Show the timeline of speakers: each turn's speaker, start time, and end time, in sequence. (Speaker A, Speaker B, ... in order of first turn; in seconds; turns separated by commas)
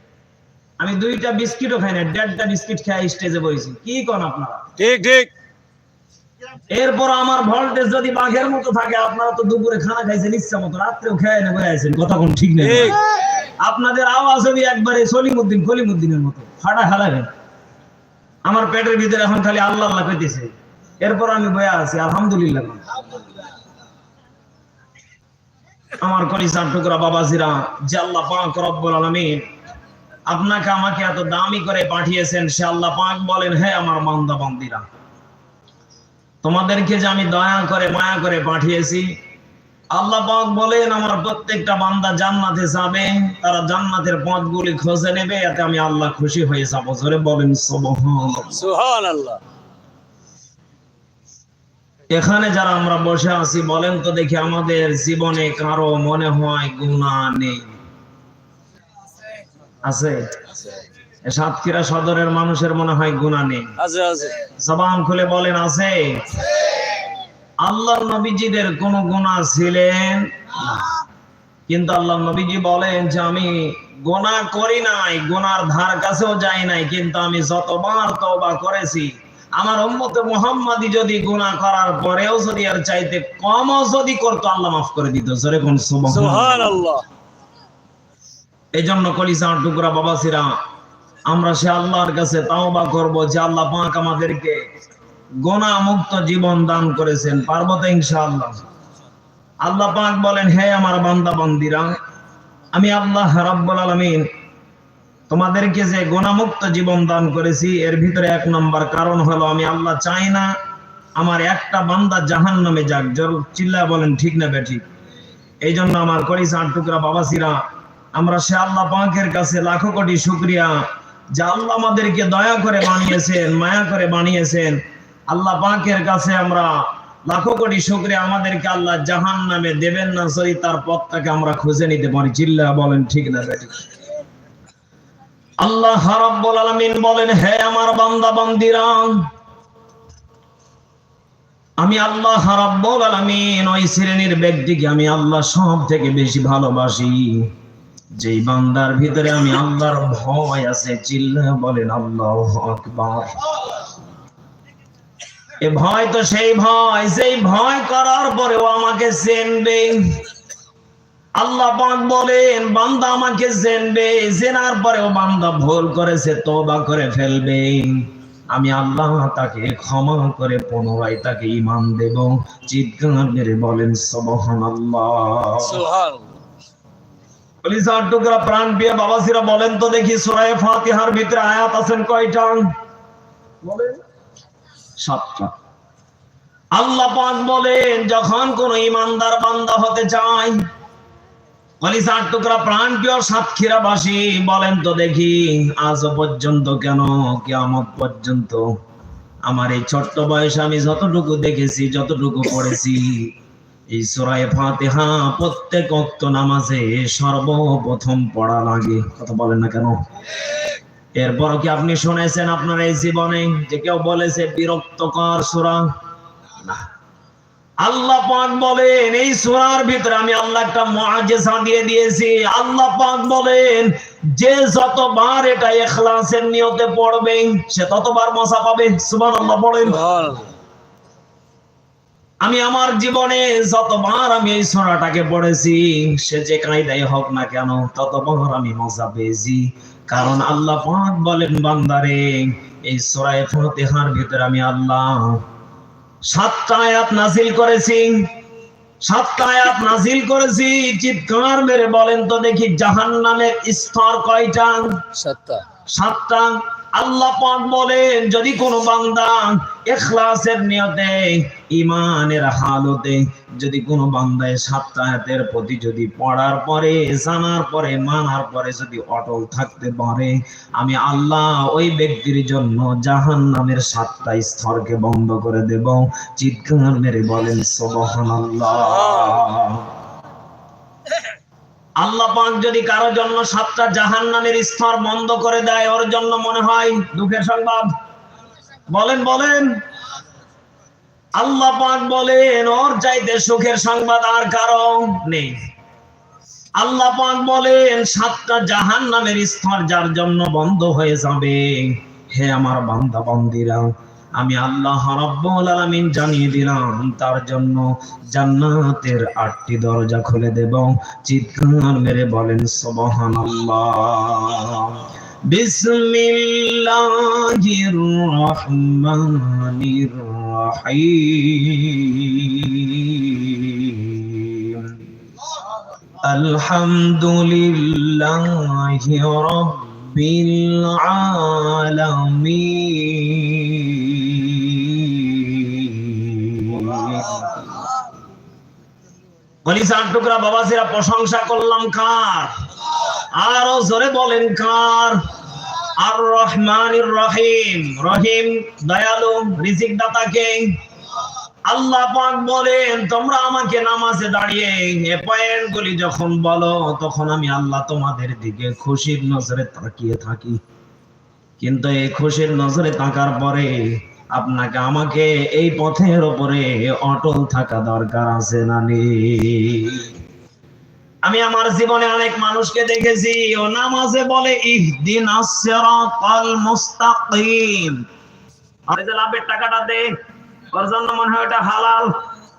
Speaker A: 0.8-4.7, Speaker B: 4.8-5.3, Speaker A: 6.7-13.0, Speaker B: 12.6-13.0, Speaker A: 13.6-17.3, Speaker A: 18.4-22.8, Speaker A: 26.0-29.5, Speaker A: 30.3-34.9, Speaker A: 36.4-39.1, Speaker A: 39.9-48.6, Speaker B: 48.5-49.4, Speaker A: 52.1-57.8, Speaker A: 59.8-60.2, Speaker A: 61.2-63.7, Speaker B: 63.8-64.4, Speaker A: 64.6-66.5, Speaker A: 67.6-71.0, Speaker A: 71.7-86.7, Speaker B: 86.1-87.0, Speaker A: 88.7-90.6, Speaker A: 91.3-94.6, Speaker A: 95.4-98.6, Speaker A: 99.6-102.0, Speaker A: 102.7-104.3, Speaker A: 105.3-110.5, Speaker A: 111.2-114.8, Speaker A: 115.6-117.6, Speaker A: 118.1-133.8, Speaker A: 135.6-139.3, Speaker A: 141.8-147.5, Speaker A: 148.2-153.6, Speaker A: 155.6-160.2, Speaker A: 161.4-175.8, Speaker B: 175.6-176.4, Speaker A: 177.6-182.7, Speaker A: 183.6-184.0, Speaker A: 185.0-185.5, Speaker A: 186.7-190.6, Speaker A: 191.8-198.7, Speaker A: 199.5-203.4, Speaker A: 203.9-210.0, Speaker A: 211.2-215.9, Speaker A: 217.8-230.0, Speaker B: 229.8-230.5, Speaker A: 232.4-245.4, Speaker A: 246.3-248.3, Speaker A: 249.0-255.0, Speaker B: 255.1-255.6, Speaker A: 255.9-279.9, Speaker B: 278.7-279.5, Speaker A: 282.0-287.9, Speaker A: 288.9-289.8, Speaker A: 291.4-295.6, Speaker A: 296.8-325.0, Speaker A: 326.2-337.7, Speaker A: 339.6-345.2, Speaker A: 346.0-350.8, Speaker A: 351.7-360.6, Speaker A: 361.6-370.1, Speaker A: 371.2-378.1, Speaker A: 378.9-380.1, Speaker A: 380.7-382.2